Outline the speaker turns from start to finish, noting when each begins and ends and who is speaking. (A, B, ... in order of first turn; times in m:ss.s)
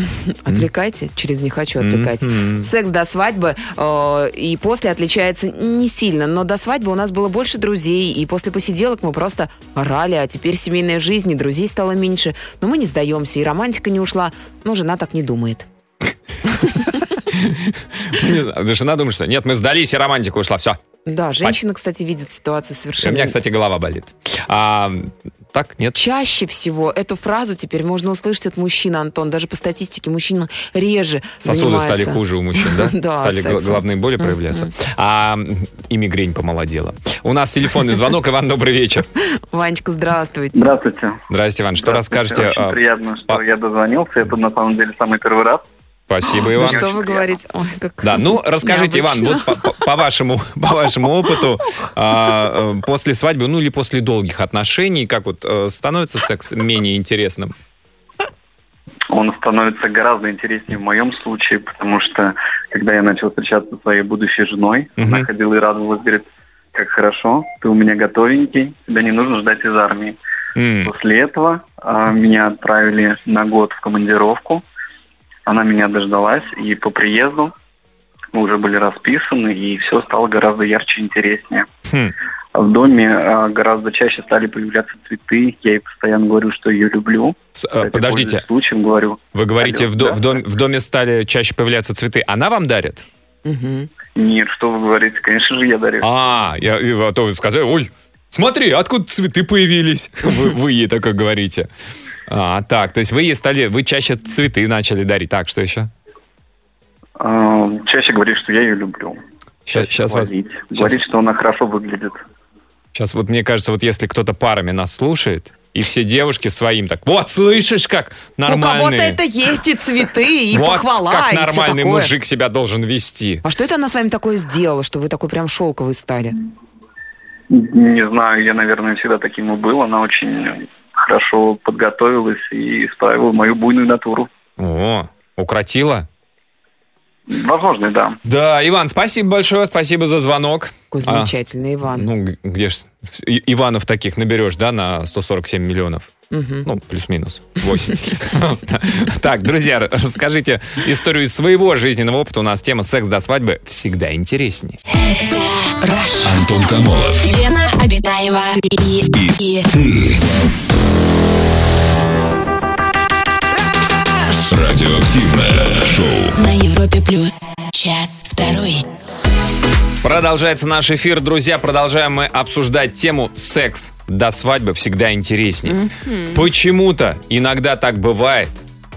0:00.3-0:15.7 A
0:01.8-0:02.7 B
0:17.3-0:20.8 B
0:21.0-0:23.4 A
0:23.0-0:26.0 B
0:25.9-0:34.7 A
0:31.4-0:39.1 B
0:39.5-0:40.8 A
0:40.5-0:41.2 C
0:41.3-0:43.4 B
0:41.8-0:45.6 C
0:46.1-0:46.9 B
0:46.3-0:49.7 A
0:46.5-0:47.3 C
0:48.0-0:57.5 B
0:59.1-1:10.2 C
1:05.0-1:05.3 B
1:10.6-1:10.9 B
1:10.8-1:14.6 C
1:15.4-1:17.5 C
1:18.3-1:21.7 C
1:21.9-1:22.1 B
1:22.5-1:30.3 C
1:27.6-1:28.4 B
1:29.3-1:33.0 B
1:33.4-1:33.9 A
1:34.1-1:36.0 C
1:36.0-1:41.7 B
1:42.3-1:45.9 B
1:47.2-1:49.2 C
1:49.6-1:51.0 B
1:49.7-1:52.2 C
1:52.9-1:59.2 B
1:58.4-2:02.1 A
2:00.5-2:03.4 B
2:03.4-2:06.4 A
2:07.5-2:14.3 C
2:14.6-2:16.1 B
2:17.3-2:18.2 C
2:18.2-2:21.3 B
2:20.9-2:22.1 A
2:21.8-2:26.1 B
2:26.3-2:26.7 A
2:26.6-2:34.8 B
2:35.0-2:36.4 D
2:36.2-2:37.4 E
2:37.2-2:39.7 D
2:39.1-2:40.2 E
2:44.2-2:46.4 E
2:46.3-2:48.8 D
2:50.0-2:55.8 B
2:55.6-2:56.5 A
2:56.3-2:58.6 B